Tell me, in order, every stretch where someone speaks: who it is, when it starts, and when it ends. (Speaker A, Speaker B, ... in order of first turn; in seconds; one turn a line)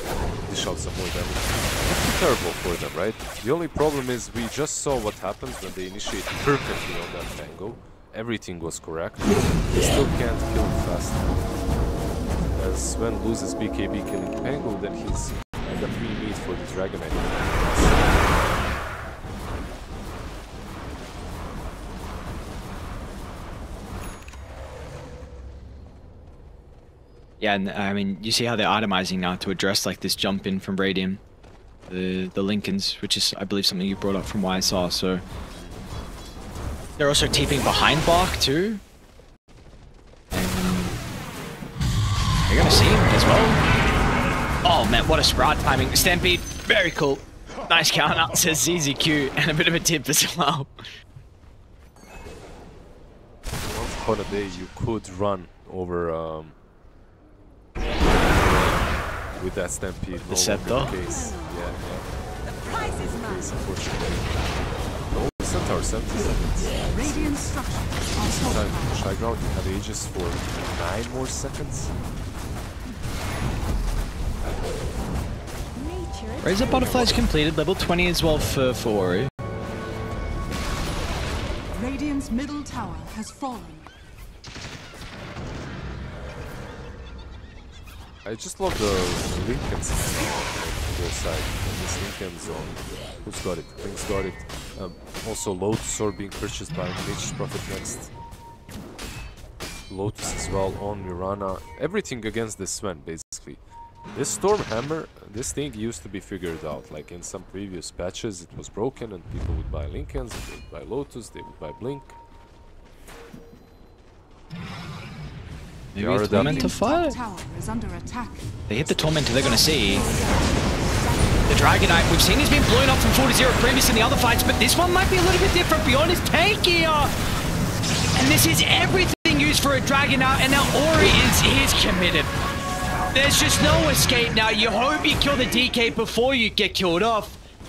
Speaker A: 0.4-11.4
Speaker A: 12.5-18.0
Speaker B: 27.4-31.2
Speaker B: 31.9-35.2
Speaker B: 37.0-38.8
Speaker B: 40.3-41.0
Speaker B: 42.4-43.6
Speaker B: 44.6-50.7
Speaker A: 53.6-56.5
Speaker A: 58.0-62.0
Speaker B: 60.2-60.9
Speaker C: 60.9-61.6
Speaker C: 62.5-63.5
Speaker A: 62.8-64.4
Speaker A: 65.1-67.5
Speaker D: 66.9-69.0
Speaker A: 68.2-71.9
Speaker C: 75.7-77.1
Speaker B: 76.4-79.3
Speaker D: 81.7-83.9
Speaker A: 88.2-98.1
Speaker A: 99.9-103.6
Speaker A: 104.1-112.2
Speaker B: 115.9-117.2
Speaker A: 116.0-116.7
Speaker D: 116.2-118.5
Speaker B: 118.7-120.0
Speaker A: 118.8-119.2
Speaker C: 119.5-121.4
Speaker B: 121.5-127.1
Speaker B: 128.1-132.3
Speaker B: 133.1-137.4